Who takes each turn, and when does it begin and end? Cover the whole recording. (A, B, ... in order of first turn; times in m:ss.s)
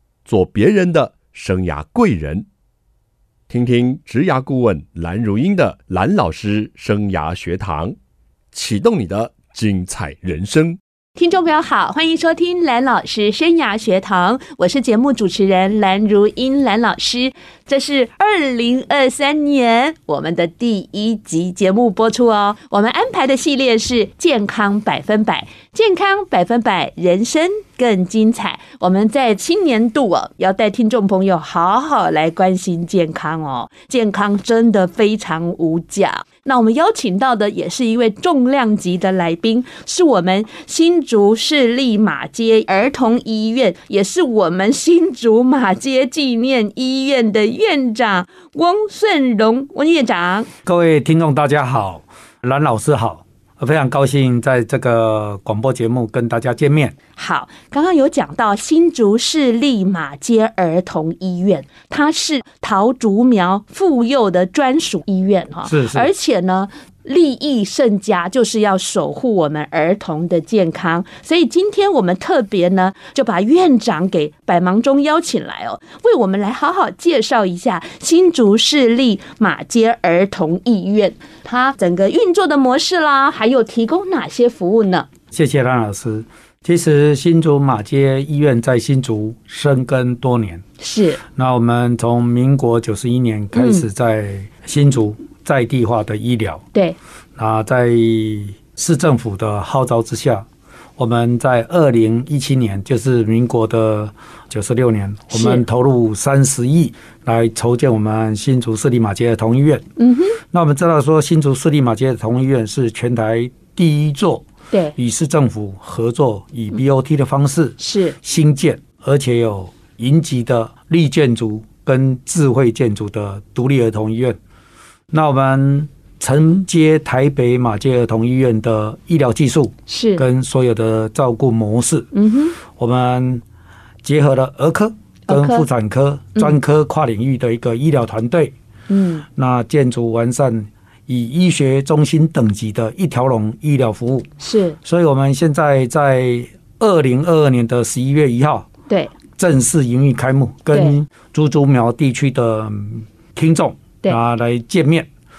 0:00.2-0:02.4 A
0:03.5-0:07.9 A
0:08.5-0:10.8 A
0:11.2-0:50.5 B
0:50.6-0:56.9 C
0:57.2-1:25.1 B
1:05.6-1:06.1 C
1:25.3-1:30.6 C
1:30.8-1:31.2 B
1:31.3-1:36.6 C
1:33.5-1:33.8 B
1:37.4-1:49.8 C
1:45.3-1:45.6 B
1:50.0-1:50.4 B
1:50.5-2:04.4 C
1:57.8-1:58.2 B
2:05.1-2:13.4 C
2:09.9-2:10.2 B
2:12.1-2:12.6 B
2:14.0-2:18.5 C
2:15.3-2:15.6 B
2:18.9-2:19.2 B
2:19.3-2:24.3 C
2:24.4-2:24.8 B
2:24.8-2:28.7 C
2:29.4-2:35.1 C